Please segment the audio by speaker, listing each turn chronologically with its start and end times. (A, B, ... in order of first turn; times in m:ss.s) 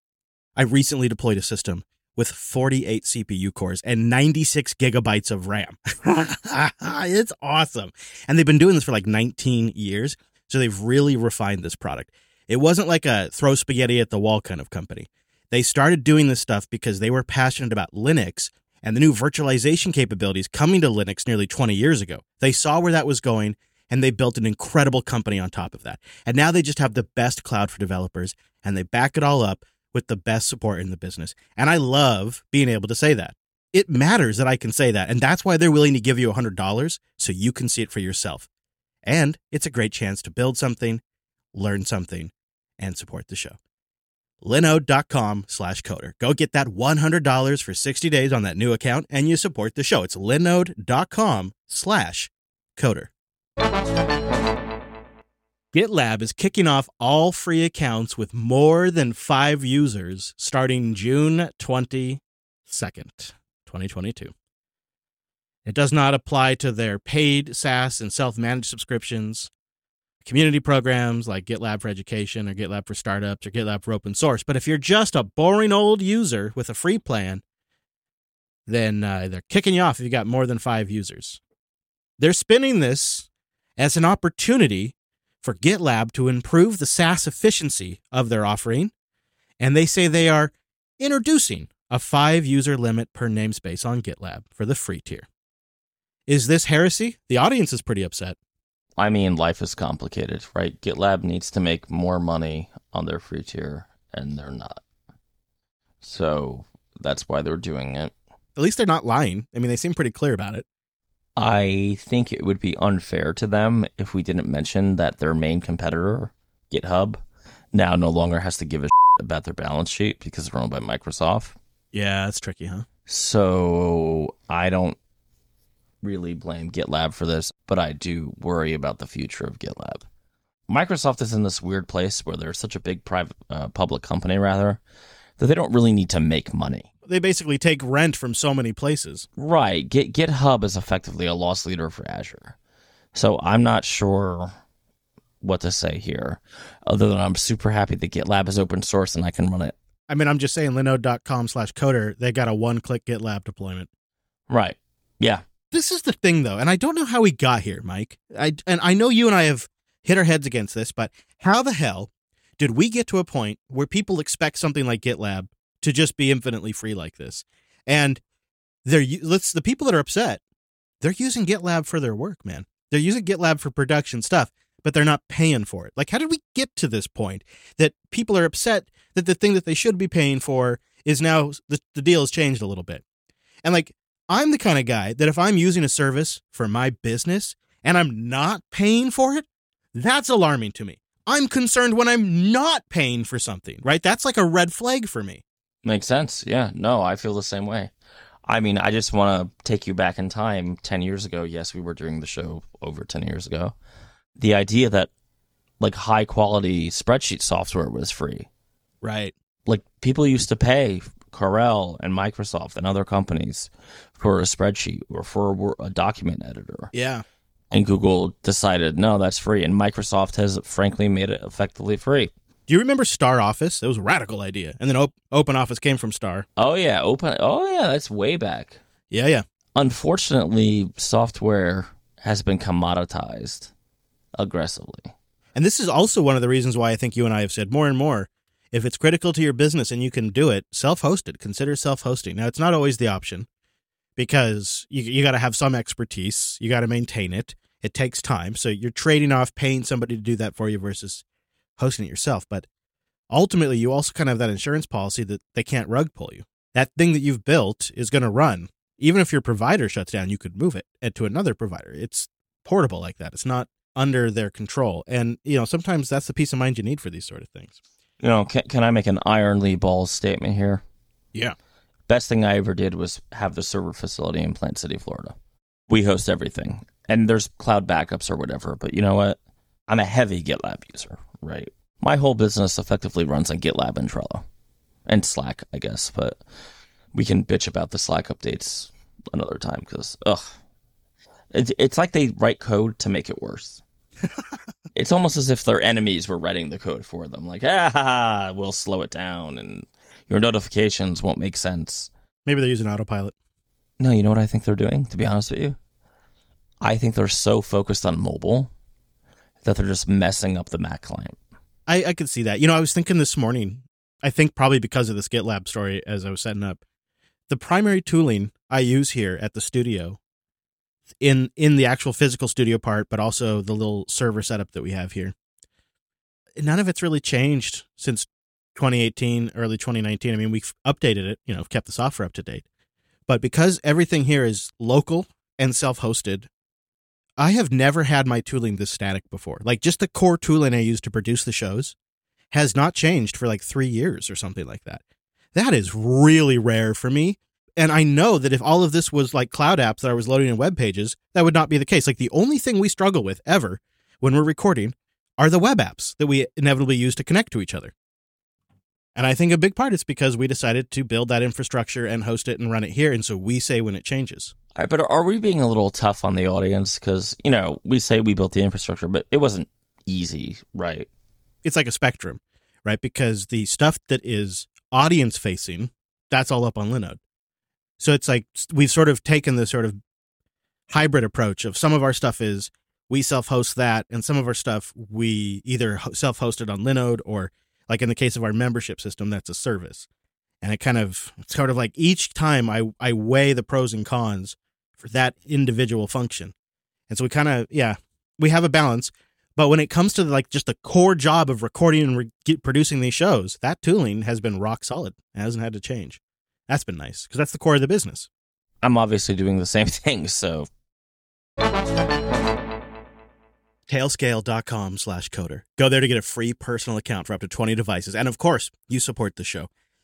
0:00.6-0:38.5 A
0:39.0-0:41.0 A
0:41.5-0:43.6 A
0:44.4-0:53.1 A
0:55.7-1:04.3 A
1:05.6-1:09.5 A
1:10.2-1:17.4 A
1:18.7-1:21.4 A
1:22.2-1:28.9 A
1:29.6-1:35.3 A
1:36.3-1:38.4 A
1:39.0-1:44.8 B
1:46.0-1:48.1 B
1:48.6-1:50.6 A
1:51.4-2:01.6 B
2:01.9-2:02.8 A
2:03.1-2:05.0 B
2:06.0-2:10.0 B
2:10.7-2:14.8 B
2:15.4-2:16.8 B
2:17.1-2:19.3 A
2:19.4-2:22.5 B
2:23.1-2:24.5 B
2:25.4-2:29.7 B
2:30.1-2:33.9 A
2:34.5-2:35.4 B
2:35.7-2:48.2 A
2:48.8-2:50.4 A
2:51.0-3:03.0 A
3:03.6-3:15.4 A
3:15.8-3:17.9 B
3:18.4-3:23.7 B
3:24.4-3:25.1 B
3:25.8-3:28.5 B
3:29.0-3:29.3 A
3:29.6-3:36.9 B
3:36.9-3:37.2 A
3:37.7-3:42.3 B
3:42.7-3:46.4 A
3:46.6-3:48.8 B
3:49.1-3:49.4 A
3:49.7-3:53.7 B
3:54.4-3:55.1 B
3:55.5-4:03.5 A
4:04.2-4:11.2 A
4:11.8-4:12.7 A
4:13.3-4:27.8 A
4:28.2-4:30.8 B
4:32.1-4:35.3 B
4:35.9-4:39.4 B
4:39.9-4:44.4 B
4:45.0-4:46.4 B
4:47.1-4:50.5 B
4:51.5-4:53.8 B
4:54.9-5:02.1 B
5:02.4-5:03.3 A
5:04.0-5:05.8 B
5:06.8-5:08.7 B
5:09.6-5:11.4 B
5:11.9-5:16.8 A
5:17.5-5:20.2 A
5:21.2-5:25.3 A
5:26.6-5:32.6 A
5:33.3-5:36.5 A
5:37.4-5:41.9 A
5:42.5-5:45.0 A
5:45.5-5:57.9 A
5:59.2-6:04.5 A
6:04.8-6:11.1 B
6:11.6-6:17.2 A
6:18.0-6:20.0 A
6:20.9-6:30.1 A
6:30.6-6:36.5 A
6:37.1-6:48.3 A
6:48.8-6:50.7 B
6:53.9-6:59.7 A